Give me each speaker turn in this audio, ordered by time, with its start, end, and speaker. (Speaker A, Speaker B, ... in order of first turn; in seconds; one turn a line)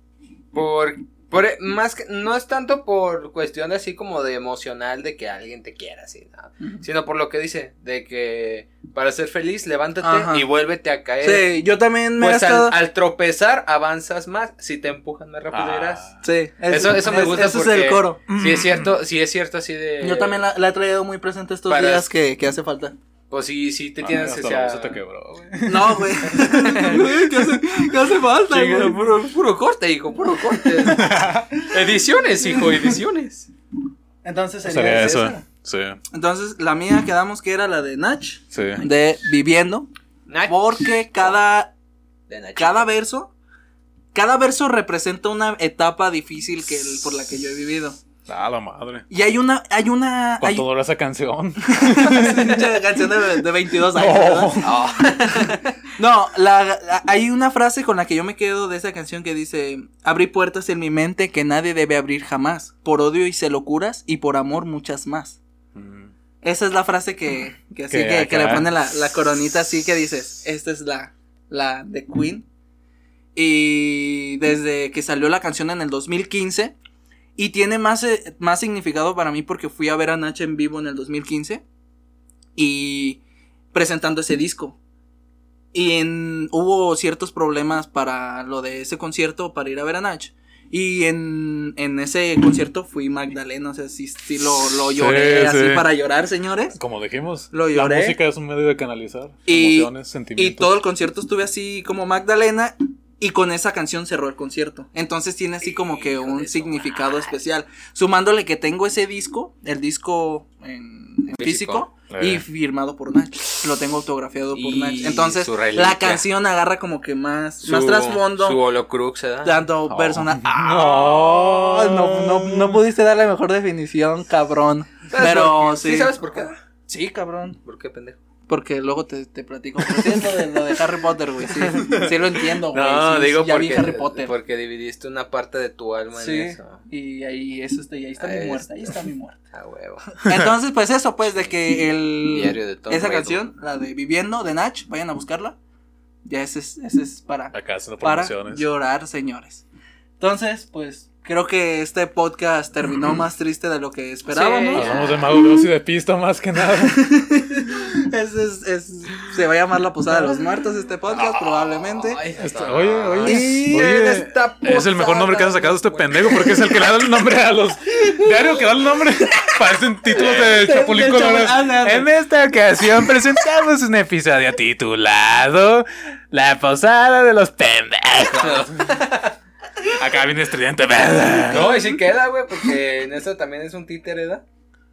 Speaker A: 0.5-11.6
Speaker B: 10.0-10.4
Speaker B: 11.2-12.8
Speaker A: 12.2-16.1
Speaker C: 15.5-16.2
Speaker B: 16.2-18.2
Speaker A: 16.7-20.4
Speaker C: 18.3-18.9
Speaker B: 20.0-22.9
Speaker A: 21.7-22.1
Speaker A: 23.3-25.4
Speaker C: 24.0-27.1
Speaker B: 25.6-29.0
Speaker A: 26.6-27.0
Speaker A: 28.5-33.5
Speaker B: 30.8-31.7
Speaker C: 30.9-31.5
Speaker B: 34.2-35.4
Speaker C: 34.7-36.0
Speaker B: 36.1-39.9
Speaker C: 38.5-38.8
Speaker A: 40.3-41.3
Speaker B: 40.5-41.7
Speaker A: 42.3-42.9
Speaker B: 42.6-43.3
Speaker B: 44.1-48.0
Speaker C: 48.3-49.0
Speaker B: 49.1-50.7
Speaker C: 50.4-52.7
Speaker B: 51.7-65.4
Speaker C: 53.9-54.8
Speaker A: 54.6-55.7
Speaker C: 65.8-66.1
Speaker B: 66.4-72.5
Speaker C: 67.9-68.7
Speaker B: 73.3-76.8
Speaker B: 77.4-81.6
Speaker B: 82.6-83.2
Speaker B: 83.7-84.8
Speaker B: 85.7-96.8
Speaker C: 95.0-95.9
Speaker C: 96.8-100.8
Speaker B: 97.5-98.2
Speaker B: 99.5-118.6
Speaker A: 105.7-107.3
Speaker A: 111.4-111.8
Speaker C: 112.1-112.5
Speaker A: 114.5-116.2
Speaker A: 117.6-119.6
Speaker B: 119.4-126.2
Speaker C: 119.9-122.8
Speaker A: 125.1-126.6
Speaker B: 126.9-127.6
Speaker A: 127.7-128.2
Speaker B: 128.5-134.3
Speaker C: 130.0-130.3
Speaker A: 131.7-132.1
Speaker C: 131.8-132.1
Speaker A: 132.7-136.8
Speaker B: 136.2-139.4
Speaker A: 138.2-140.1
Speaker B: 140.2-145.6
Speaker C: 140.3-140.5
Speaker A: 142.3-143.5
Speaker B: 146.3-149.7
Speaker C: 147.5-148.6
Speaker B: 150.2-154.9
Speaker A: 154.3-155.4
Speaker C: 154.8-157.1
Speaker B: 156.8-162.2
Speaker A: 161.1-166.7
Speaker C: 162.4-179.0
Speaker B: 163.2-164.1
Speaker B: 170.1-172.1
Speaker A: 170.2-170.5
Speaker A: 178.3-179.3
Speaker C: 179.9-181.8
Speaker A: 181.5-184.4